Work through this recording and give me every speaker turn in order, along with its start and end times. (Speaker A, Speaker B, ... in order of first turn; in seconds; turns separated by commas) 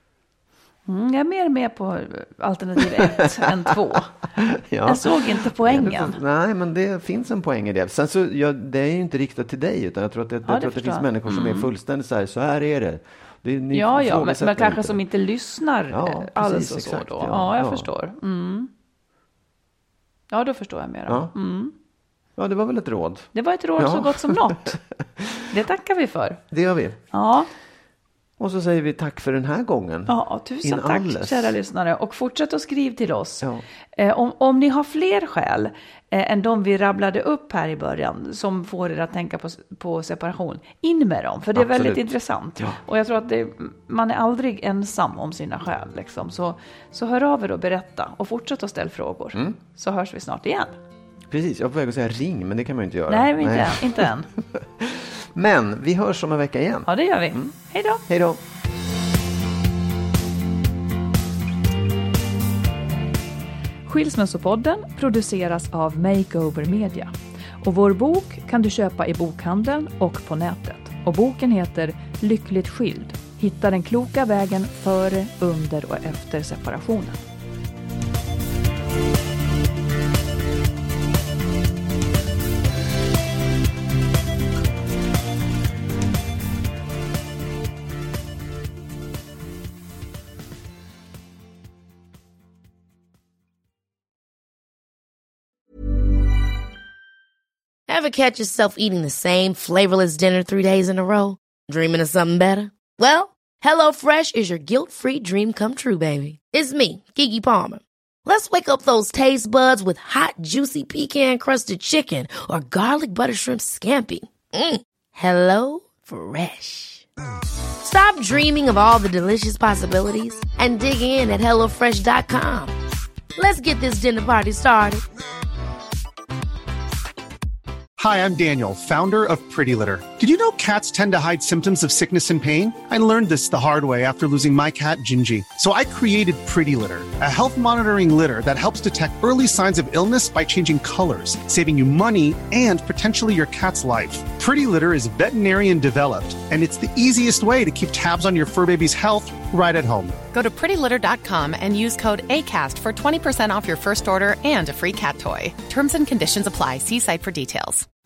Speaker A: 0.9-4.2, Speaker B: 2.8-3.7, Speaker B: 4.4-15.0, Speaker A: 4.8-6.2, Speaker A: 10.4-11.7, Speaker A: 13.7-18.7, Speaker B: 15.9-17.9, Speaker A: 20.3-21.7, Speaker B: 21.1-21.3, Speaker B: 22.4-25.5, Speaker A: 23.3-24.8, Speaker A: 25.5-26.4, Speaker B: 26.5-27.0, Speaker A: 27.1-27.5, Speaker B: 28.4-31.5, Speaker A: 30.1-50.8, Speaker B: 41.5-42.1, Speaker B: 51.3-57.5, Speaker A: 53.1-54.3, Speaker A: 56.9-58.0, Speaker B: 58.1-58.4, Speaker A: 63.9-77.2, Speaker C: 97.9-117.1, Speaker C: 117.8-122.7, Speaker C: 123.3-125.0, Speaker D: 128.0-150.2, Speaker E: 150.3-157.9